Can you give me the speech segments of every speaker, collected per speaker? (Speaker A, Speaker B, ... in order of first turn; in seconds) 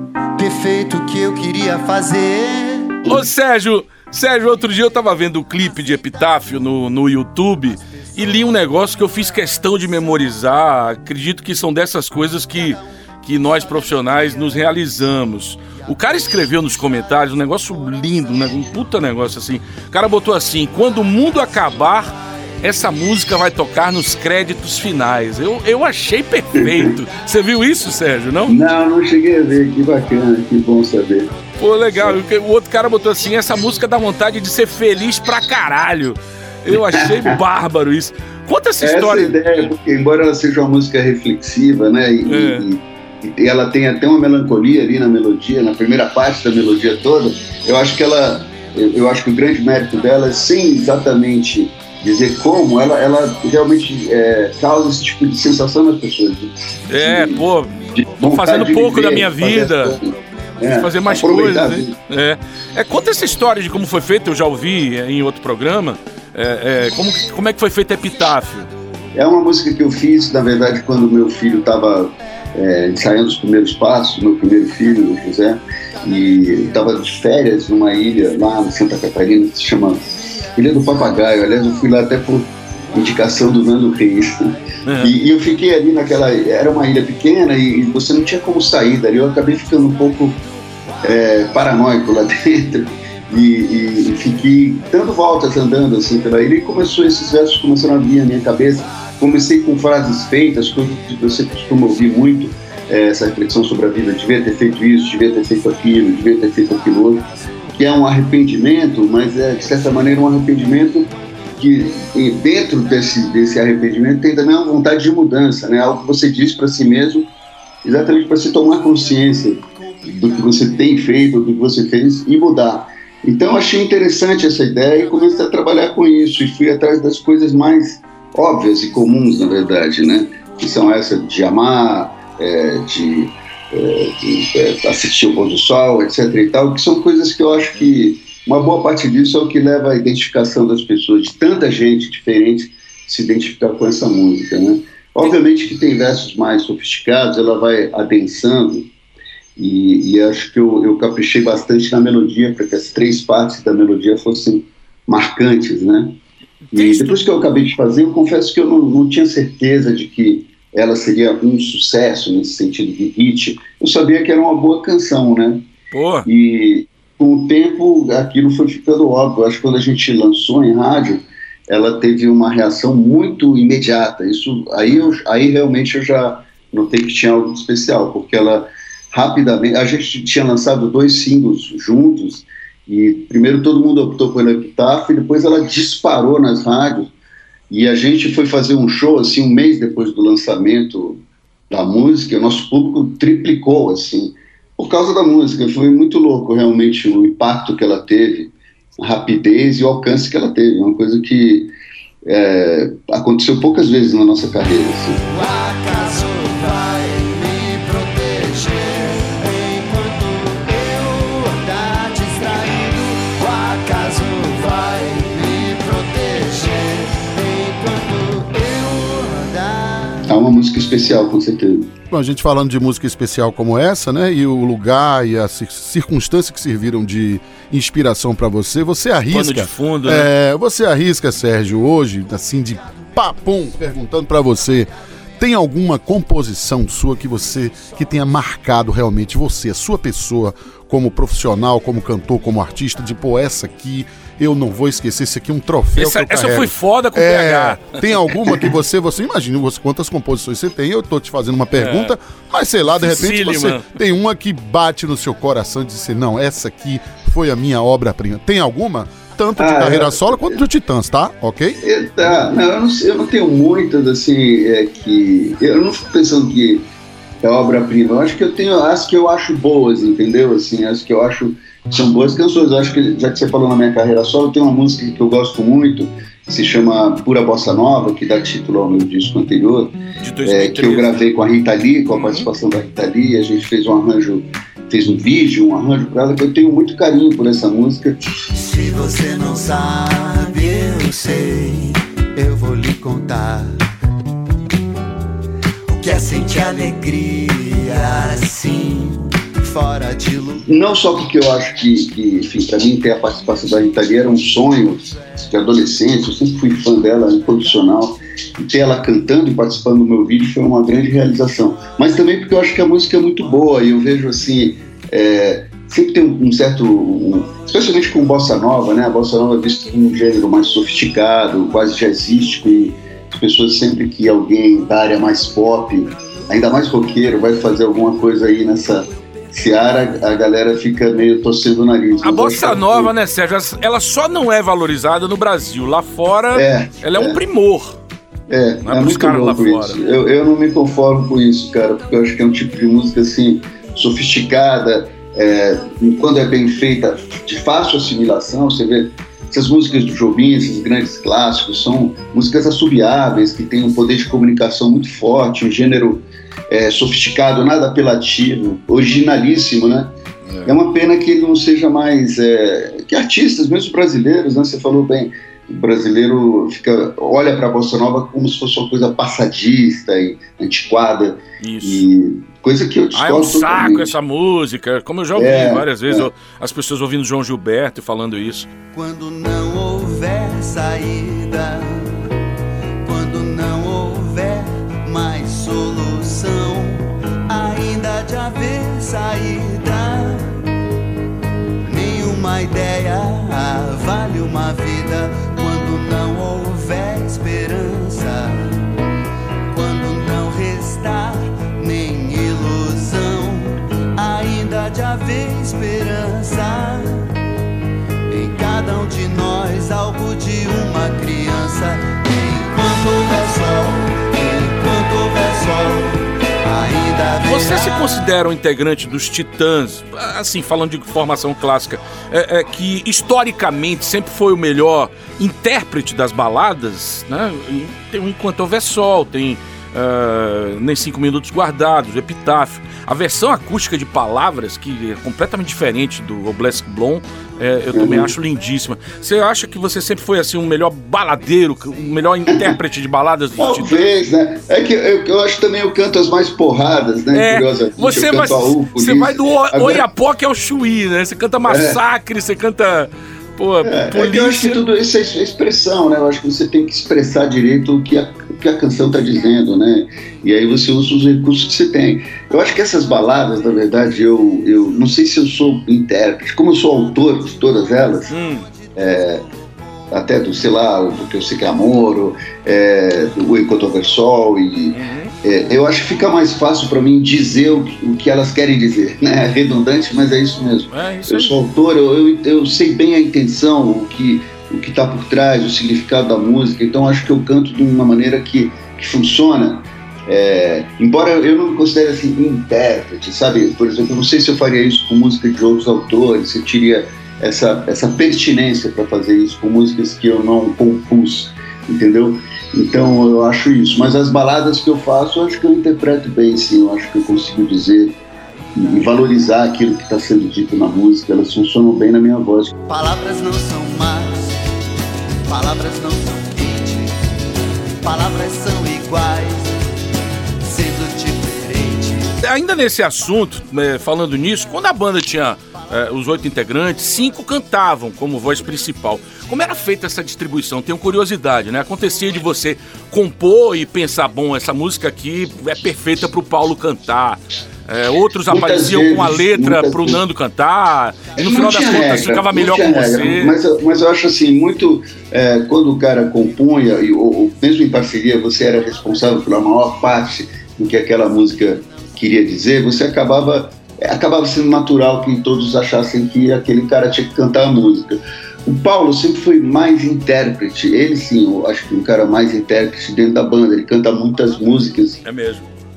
Speaker A: 0.3-3.1, 205.3-220.3, 288.5-293.8, 295.9-300.7, 378.9-382.2, 383.0-390.6, 391.9-398.8, 399.7-407.3, 408.3-418.2, 512.9-514.5, 515.5-517.1, 518.0-519.7, 520.6-522.3
Speaker B: 3.0-28.6, 31.6-39.4, 42.2-42.7, 56.9-60.0, 60.6-68.7, 84.8-85.1, 156.7-157.2, 165.9-166.3, 229.3-230.3, 245.9-248.7, 251.8-252.1, 252.9-253.8, 280.2-281.1, 282.1-282.5, 332.2-338.0, 338.8-340.0, 360.4-360.8, 371.6-372.1, 373.1-378.7, 417.4-444.1, 447.3-454.8, 468.3-468.7, 474.9-475.3, 480.9-481.5, 522.4-543.6, 565.2-565.7
Speaker C: 26.6-26.9, 28.4-31.3, 36.7-37.4, 38.8-57.4, 57.9-62.0, 69.1-84.4, 85.0-90.4, 91.0-117.3, 117.8-148.9, 149.6-156.2, 156.7-165.7, 166.2-187.1, 187.7-201.7, 202.2-205.2, 220.3-221.9, 259.6-260.6, 261.8-266.8, 267.4-288.2, 300.7-333.1, 336.5-337.4, 338.5-360.1, 360.6-374.1, 375.4-376.3, 437.9-438.3, 442.5-442.8, 443.6-450.0, 451.6-452.0, 453.8-468.4, 468.9-469.4, 470.1-508.2, 508.7-512.7, 538.5-540.2, 541.4-565.2
Speaker D: 222.1-261.8